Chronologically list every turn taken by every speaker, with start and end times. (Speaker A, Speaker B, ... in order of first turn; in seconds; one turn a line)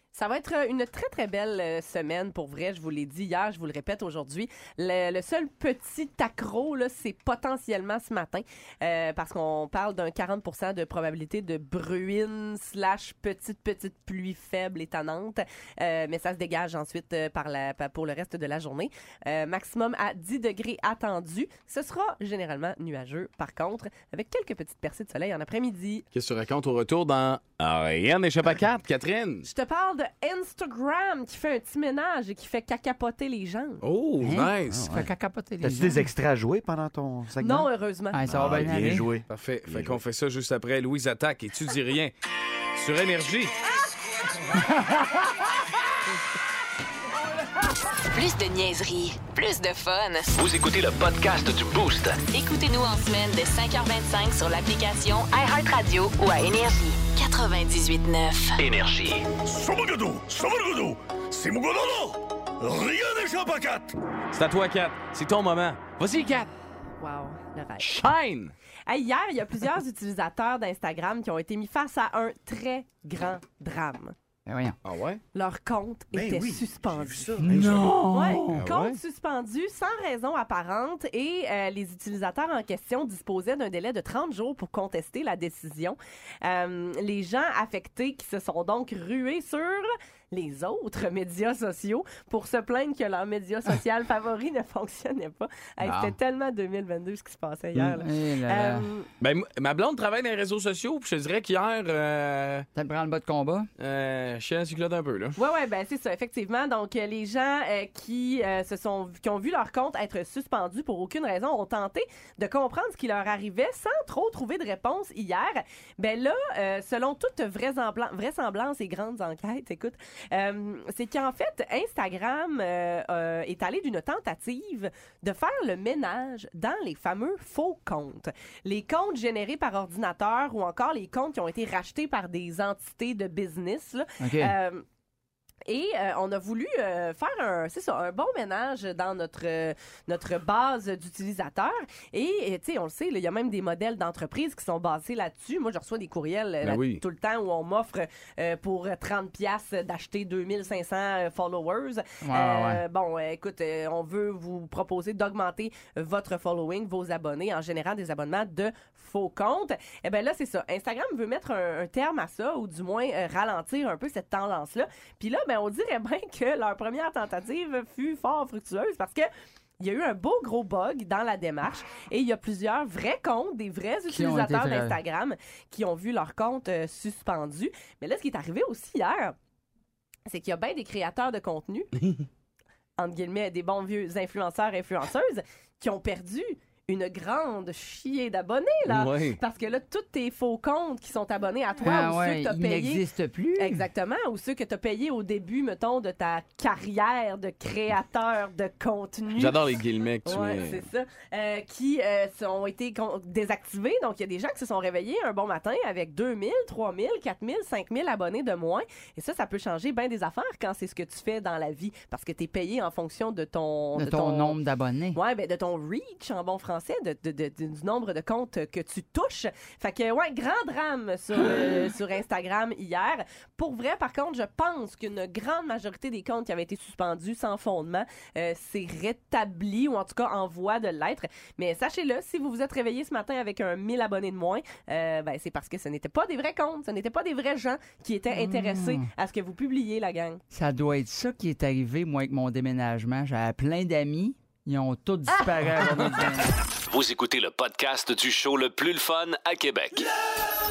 Speaker A: 0.1-26.1
Speaker B: 26.1-29.5
Speaker A: 29.4-33.8
Speaker B: 33.8-34.9
Speaker C: 34.2-36.1
Speaker D: 34.6-35.1
Speaker D: 35.6-37.7
Speaker A: 37.4-38.5
Speaker C: 38.1-39.1
Speaker D: 38.2-40.0
Speaker B: 39.3-42.1
Speaker B: 42.8-43.6
Speaker C: 44.5-45.5
Speaker E: 48.1-50.3
Speaker F: 50.4-52.2
Speaker E: 52.3-58.6
Speaker F: 58.6-59.3
Speaker B: 59.5-66.5
Speaker A: 67.0-67.9
Speaker B: 67.8-68.5
Speaker A: 68.9-74.2
Speaker C: 74.5-74.8
Speaker B: 74.8-75.2
Speaker A: 75.3-77.3
Speaker D: 76.1-78.0
Speaker C: 77.4-78.6
Speaker B: 77.5-79.0
Speaker A: 78.1-99.1
Speaker C: 95.8-96.2
Speaker C: 97.8-98.9
Speaker B: 99.2-102.7
Speaker C: 102.8-103.7
Speaker B: 103.8-105.4
Speaker A: 105.4-134.8
Speaker C: 134.2-134.5
Speaker A: 135.7-169.3
Speaker B: 146.6-147.0
Speaker C: 152.2-152.8
Speaker A: 169.8-179.4
Speaker C: 174.1-175.0
Speaker A: 180.3-181.9
Speaker A: 183.0-193.0
Speaker B: 188.9-189.4
Speaker C: 191.8-193.8
Speaker A: 193.6-214.6
Speaker B: 199.3-200.8
Speaker C: 213.9-215.2
Speaker A: 215.1-240.4
Speaker C: 238.3-239.1
Speaker C: 240.5-246.6
Speaker F: 246.9-250.1